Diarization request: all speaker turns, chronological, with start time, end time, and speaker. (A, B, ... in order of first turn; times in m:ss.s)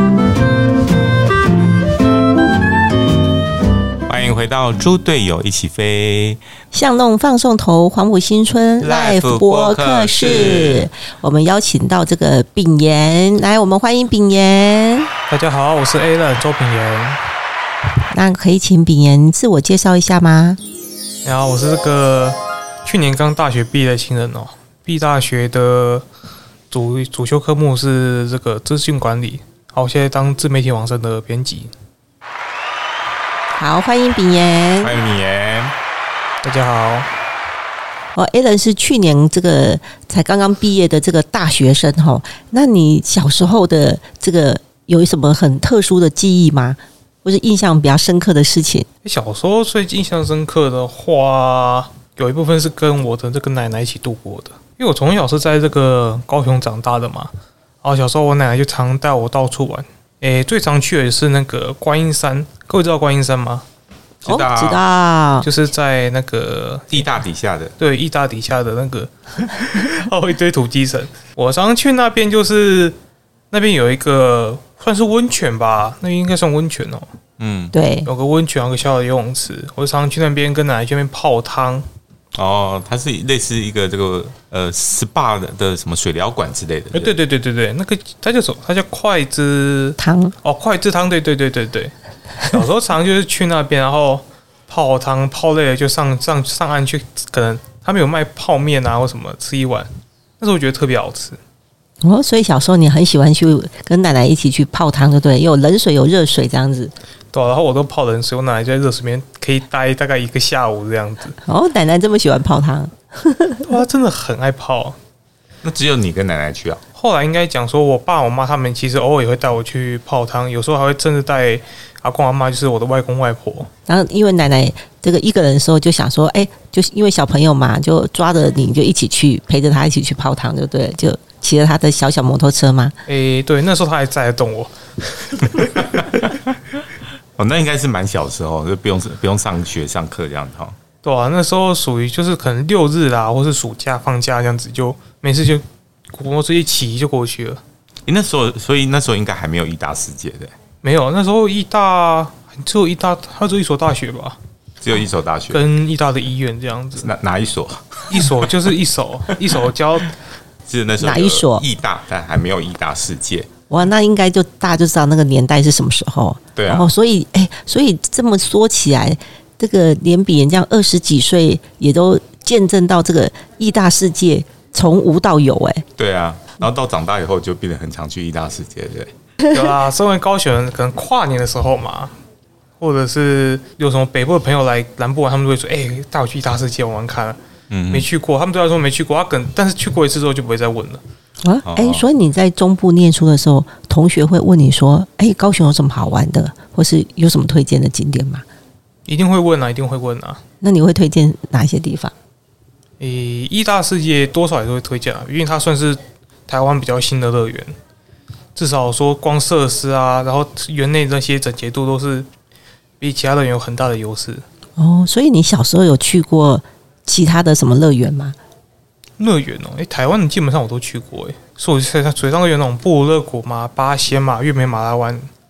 0:04.1-0:06.4 A
0:06.7-0:15.1 B
0:08.8-0:10.9 A
0:15.3-0:17.2 C
0:18.1-0:20.6 B
0:21.2-0:26.0 C
0:26.7-0:31.7 C
0:33.6-0:34.9 B
0:34.8-0:35.7 A
0:36.4-0:37.1 C
0:38.1-0:48.9 B
0:49.0-0:57.3 C
0:57.8-1:03.6 C
1:04.2-1:04.8 A
1:04.2-1:05.5 B
1:05.4-1:07.1 C
1:06.9-1:07.7 A
1:07.8-1:13.0 C
1:13.5-1:17.1 C
1:17.4-1:17.7 A
1:17.7-1:18.1 B
1:18.0-1:21.8 C
1:22.3-1:27.1 A
1:26.9-1:39.9 C
1:30.0-1:30.3 B
1:40.4-1:41.4 C
1:42.0-1:46.9 B
1:47.3-1:51.4 C
1:51.4-1:53.6 B
1:53.6-1:55.0 C
1:55.6-1:56.8 A
1:57.0-2:03.7 C
2:03.9-2:12.9 B
2:13.1-2:16.1 C
2:15.8-2:16.5 A
2:17.4-2:20.7 A
2:21.0-2:27.6 C
2:28.0-2:30.5 A
2:30.8-2:34.4 C
2:34.8-2:35.6 A
2:35.5-2:37.1 C
2:37.0-2:38.5 A
2:38.1-2:40.2 C
2:40.6-2:43.5 A
2:41.0-2:41.6 B
2:43.7-2:55.8 B
2:46.6-2:46.9 A
2:56.0-2:59.1 A
2:59.5-3:02.1 C
3:02.8-3:07.4 C
3:07.7-3:08.1 A
3:07.9-3:11.0 C
3:11.4-3:18.4 B
3:11.6-3:12.0 A
3:19.1-3:20.4 C
3:20.6-3:22.1 B
3:23.0-3:27.7 C
3:28.5-3:32.3 C
3:33.0-3:34.4 C
3:34.8-3:38.4 B
3:39.2-3:45.3 C